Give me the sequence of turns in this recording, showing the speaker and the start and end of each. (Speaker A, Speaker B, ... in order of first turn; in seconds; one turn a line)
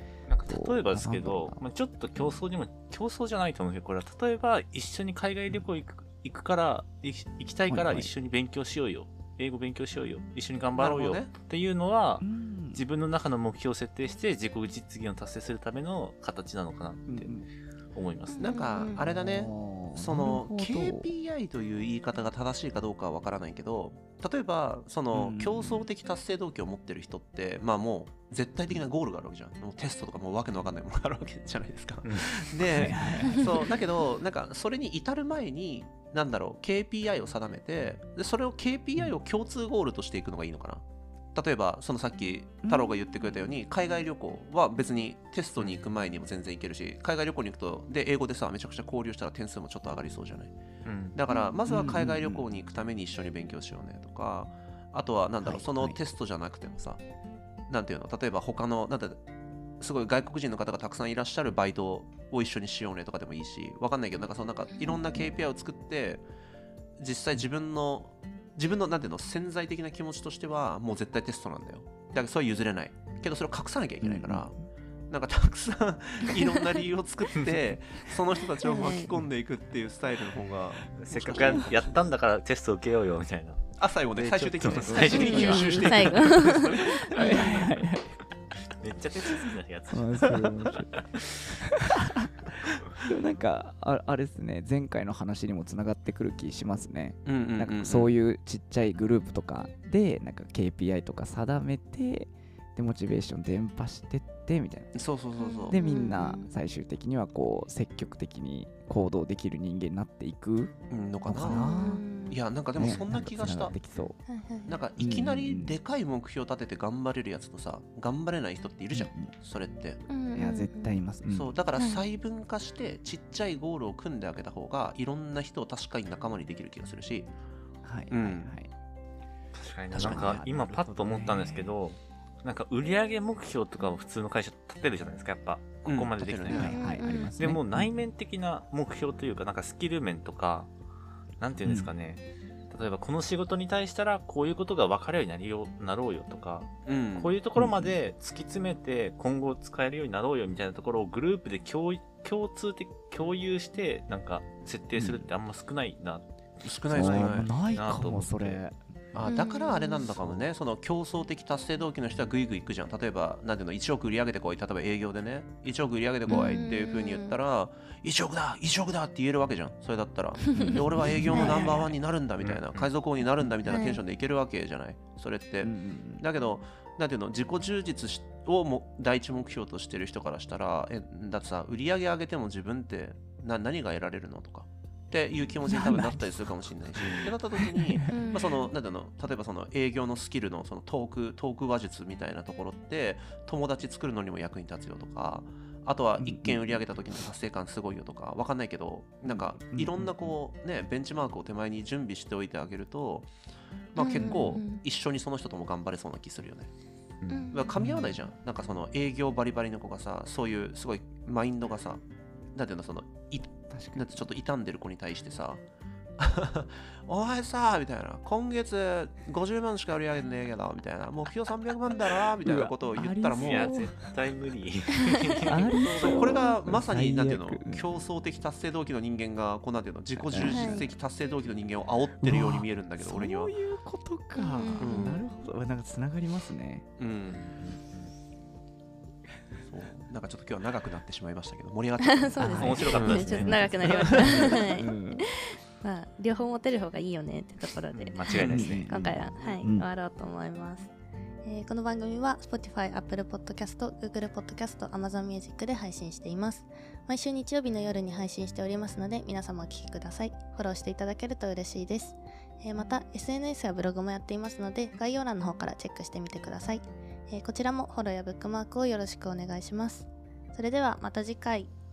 Speaker A: 0.3-17.3
Speaker B: 0.5-1.6
Speaker B: 7.7-8.1
Speaker C: 10.8-11.3
Speaker B: 12.2-12.8
Speaker B: 17.1-17.5
Speaker A: 17.9-18.4
Speaker D: 18.3-19.0
Speaker C: 18.4-40.8
Speaker B: 19.0-21.1
Speaker B: 25.1-25.9
Speaker A: 32.0-32.3
Speaker B: 32.7-33.5
Speaker C: 41.3-50.6
Speaker B: 42.6-42.9
Speaker A: 50.9-51.2
Speaker C: 51.1-57.0
Speaker D: 51.3-51.6
Speaker B: 51.7-52.5
Speaker B: 55.4-56.0
Speaker C: 57.7-59.2
Speaker C: 59.8-66.2
Speaker D: 64.7-65.0
Speaker C: 67.0-74.5
Speaker B: 74.0-74.6
Speaker C: 75.1-82.1
Speaker D: 78.6-79.1
Speaker A: 81.0-86.3
Speaker C: 83.8-87.4
Speaker B: 84.8-86.1
Speaker D: 85.1-87.6
Speaker B: 87.1-88.1
Speaker A: 87.2-87.7
Speaker A: 88.8-91.5
Speaker B: 89.9-91.0
Speaker B: 93.0-105.0
Speaker C: 97.2-98.1
Speaker C: 104.9-105.8
Speaker D: 105.4-106.5
Speaker B: 105.7-110.7
Speaker C: 110.9-111.7
Speaker B: 111.3-112.1
Speaker D: 111.5-112.4
Speaker C: 112.3-113.8
Speaker B: 112.8-114.2
Speaker D: 114.3-114.8
Speaker C: 114.7-120.0
Speaker B: 115.0-115.8
Speaker B: 118.9-119.3
Speaker D: 120.1-121.0
Speaker B: 120.3-121.5
Speaker C: 121.3-127.3
Speaker D: 121.8-122.0
Speaker B: 127.8-128.7
Speaker C: 128.1-128.6
Speaker A: 129.5-140.7
Speaker C: 129.9-130.4
Speaker B: 129.9-131.7
Speaker C: 135.8-136.8
Speaker B: 136.5-137.9
Speaker D: 136.7-137.4
Speaker A: 141.4-158.6
Speaker B: 141.6-141.9
Speaker C: 146.9-147.4
Speaker B: 147.6-148.0
Speaker B: 155.0-155.3
Speaker C: 156.6-157.5
Speaker B: 156.9-158.8
Speaker C: 159.1-203.3
Speaker D: 159.2-160.1
Speaker B: 166.3-166.7
Speaker D: 166.3-167.4
Speaker D: 170.5-171.6
Speaker B: 170.6-171.8
Speaker A: 171.3-172.9
Speaker D: 173.7-174.0
Speaker B: 175.6-176.2
Speaker B: 185.7-188.2
Speaker A: 187.0-187.3
Speaker D: 188.1-188.7
Speaker B: 196.2-196.8
Speaker B: 199.3-200.3
Speaker C: 203.9-206.7
Speaker D: 204.0-204.8
Speaker B: 204.1-204.6
Speaker D: 207.3-207.7
Speaker C: 207.5-212.0
Speaker B: 207.8-208.1
Speaker C: 212.5-215.6
Speaker B: 213.7-214.3
Speaker C: 216.2-223.8
Speaker B: 222.4-223.9
Speaker A: 223.4-226.3
Speaker B: 225.5-227.9
Speaker C: 226.0-233.6
Speaker D: 226.0-226.5
Speaker B: 230.2-230.9
Speaker D: 230.4-230.9
Speaker B: 232.2-236.9
Speaker D: 234.3-235.2
Speaker C: 234.8-235.2
Speaker C: 237.0-237.4
Speaker A: 237.3-238.1
Speaker C: 239.6-244.5
Speaker D: 242.0-250.9
Speaker A: 242.4-243.6
Speaker B: 242.4-245.2
Speaker A: 247.9-249.2
Speaker B: 248.4-249.9
Speaker D: 251.4-271.7